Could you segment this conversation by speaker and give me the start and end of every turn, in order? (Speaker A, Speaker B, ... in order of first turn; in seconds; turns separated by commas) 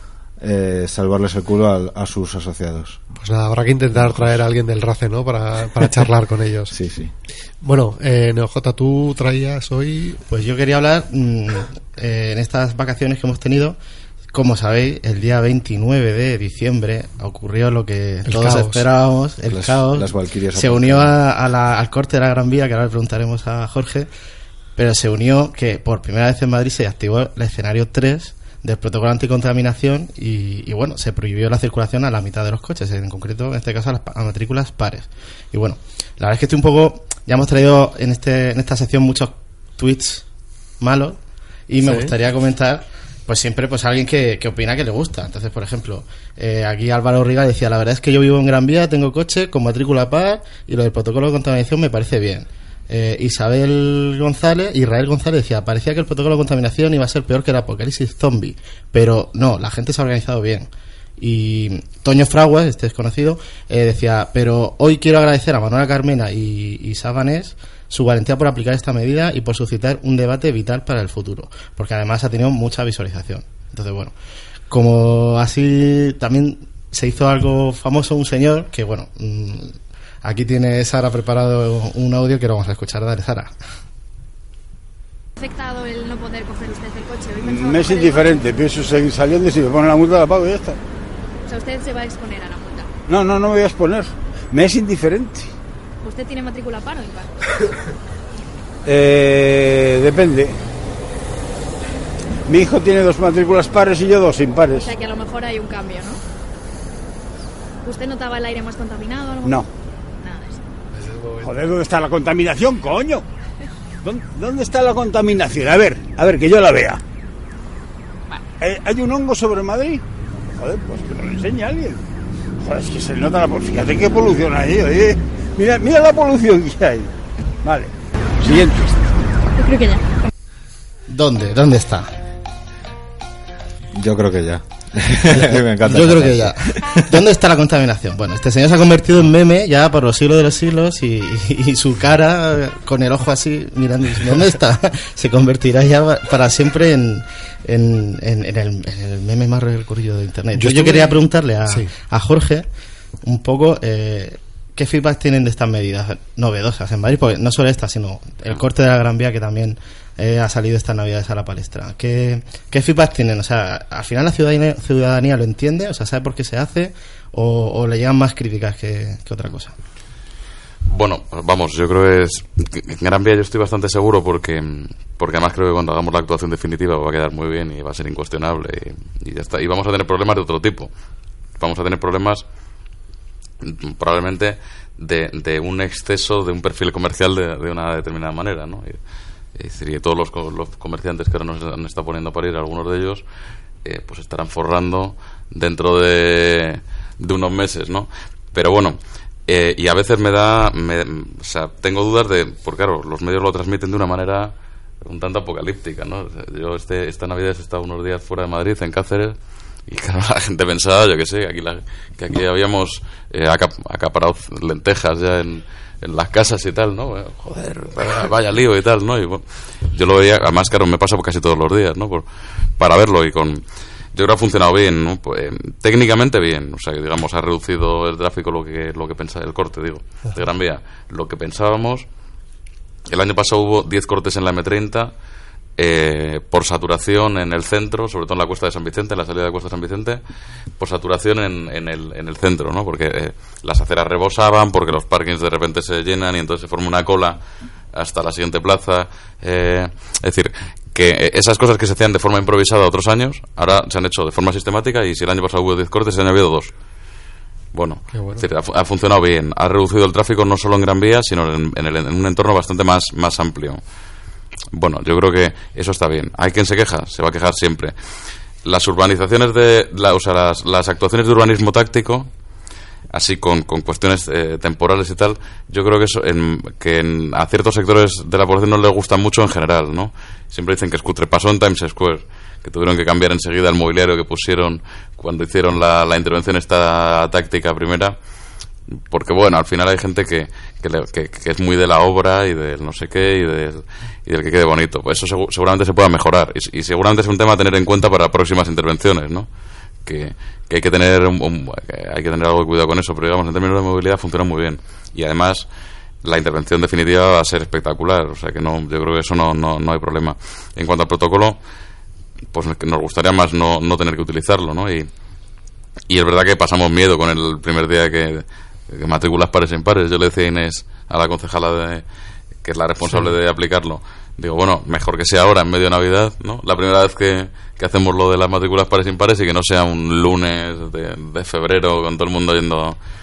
Speaker A: 0.4-3.0, Speaker B: 3.2-6.7, Speaker A: 3.9-4.3, Speaker A: 6.7-7.1, Speaker B: 7.6-10.2, Speaker C: 10.3-13.8, Speaker C: 14.3-24.1, Speaker B: 18.2-18.9, Speaker A: 19.4-21.2, Speaker C: 24.8-40.2, Speaker C: 40.8-41.2, Speaker C: 41.7-74.1, Speaker B: 41.8-42.1, Speaker C: 74.7-83.5, Speaker D: 85.4-88.5, Speaker E: 87.4-90.8, Speaker D: 91.5-92.9, Speaker E: 93.1-95.5, Speaker D: 96.0-97.3, Speaker E: 98.9-100.6, Speaker E: 102.5-104.9, Speaker D: 104.8-106.2, Speaker D: 107.8-109.6, Speaker D: 110.2-110.6, Speaker B: 110.9-111.5, Speaker E: 111.4-113.2, Speaker E: 114.0-117.0, Speaker E: 118.6-120.0, Speaker E: 120.6-122.0, Speaker E: 122.6-127.1, Speaker E: 127.6-128.9, Speaker D: 129.6-130.0, Speaker C: 131.1-132.1, Speaker A: 133.9-137.2, Speaker C: 135.3-152.7, Speaker B: 150.6-151.9, Speaker C: 153.2-169.7, Speaker F: 170.9-180.9, Speaker F: 181.6-182.4, Speaker F: 183.6-189.0, Speaker F: 189.6-193.2, Speaker F: 193.8-222.3, Speaker F: 222.8-232.1, Speaker F: 233.1-235.1, Speaker F: 235.8-240.2, Speaker F: 240.8-247.4, Speaker F: 247.9-256.7, Speaker F: 257.7-263.8, Speaker B: 258.1-258.4, Speaker F: 264.7-267.9, Speaker F: 268.6-272.3, Speaker F: 273.1-288.2, Speaker F: 288.9-299.5, Speaker F: 300.1-305.7, Speaker F: 306.2-311.6, Speaker F: 312.5-315.1, Speaker F: 316.1-322.1, Speaker F: 322.6-333.0, Speaker B: 323.0-323.3